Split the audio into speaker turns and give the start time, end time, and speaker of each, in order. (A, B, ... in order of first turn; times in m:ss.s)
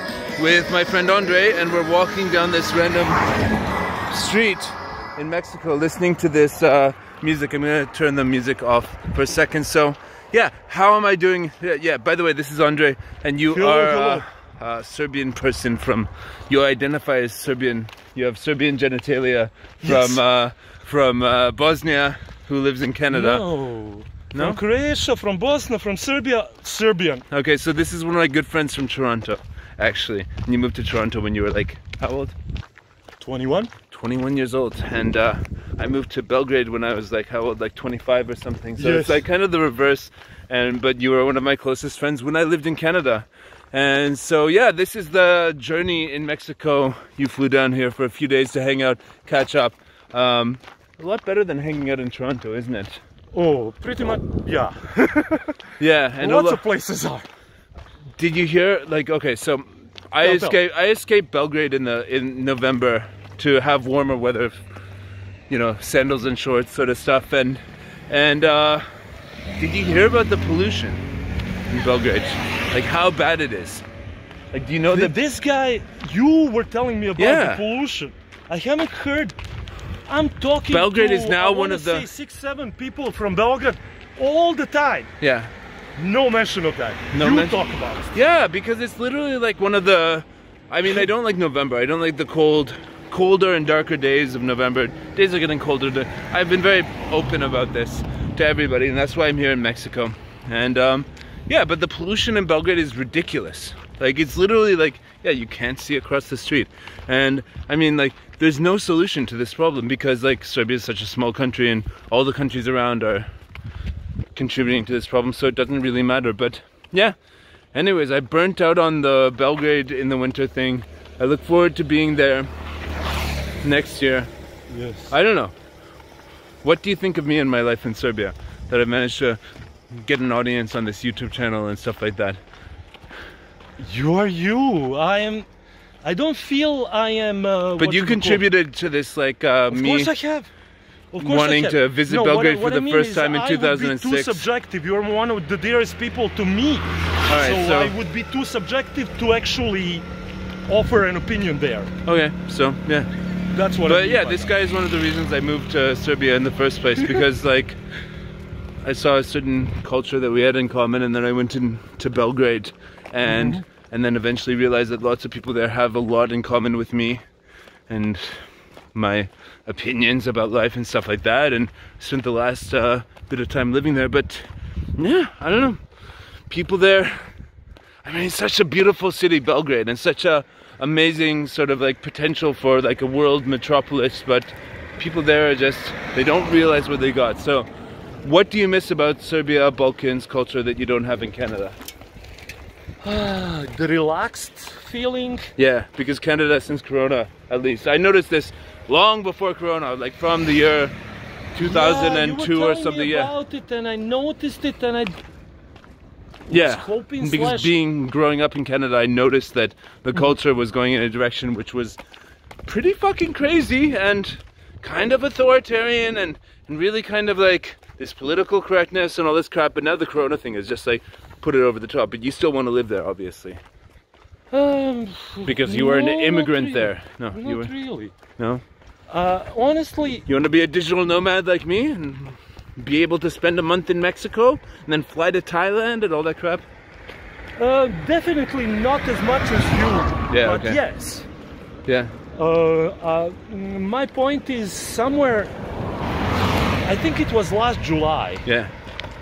0:00.4-0:03.2 A
0:04.1-0:23.4 A
0:13.5-0:14.3 B
0:19.9-0:20.2 B
0:23.1-0:27.2 B
0:24.3-0:24.6 A
0:27.3-0:32.4 A
0:33.2-0:33.7 B
0:33.9-0:53.0 A
0:38.8-0:39.2 B
0:53.3-0:55.6 B
0:55.8-0:56.6 A
0:56.2-0:57.3 B
0:58.2-1:04.6 A
1:00.2-1:00.6 B
1:05.5-1:08.8 A
1:09.6-1:11.0 A
1:11.7-1:13.8 A
1:14.5-1:15.2 A
1:14.9-1:19.4 B
1:17.2-1:17.6 A
1:20.1-1:25.1 B
1:20.7-1:22.1 A
1:25.2-1:25.5 A
1:26.0-1:28.1 B
1:27.1-1:27.6 A
1:28.1-1:53.3 A
1:54.4-1:57.2 A
1:57.7-2:02.5 A
2:03.6-2:04.3 A
2:04.7-2:05.1 B
2:05.1-2:05.5 A
2:06.6-2:09.4 A
2:09.9-2:12.4 A
2:13.8-2:15.5 B
2:16.0-2:18.5 B
2:17.8-2:20.1 A
2:19.7-2:20.5 B
2:21.1-2:30.1 B
2:21.2-2:24.4 A
2:27.3-2:27.9 A
2:30.7-2:31.9 B
2:32.0-2:33.1 A
2:33.5-2:34.5 B
2:33.9-2:37.8 A
2:38.8-2:47.2 A
2:43.2-2:43.6 B
2:47.9-2:55.8 A
2:56.5-2:57.3 A
2:58.0-3:07.7 A
3:08.2-3:11.8 A
3:13.0-3:15.5 B
3:15.6-3:20.9 A
3:21.5-3:23.3 A
3:21.6-3:25.2 B
3:26.5-3:32.0 A
3:26.5-3:27.7 B
3:32.7-3:43.6 A
3:44.5-3:48.2 B
3:45.4-3:47.7 A
3:48.4-3:48.6 A
3:49.1-3:50.3 B
3:50.3-3:56.6 A
3:57.6-4:01.3 B
4:00.3-4:00.8 A
4:01.9-4:02.1 A
4:02.4-4:05.5 B
4:06.8-4:08.5 B
4:08.4-4:08.7 A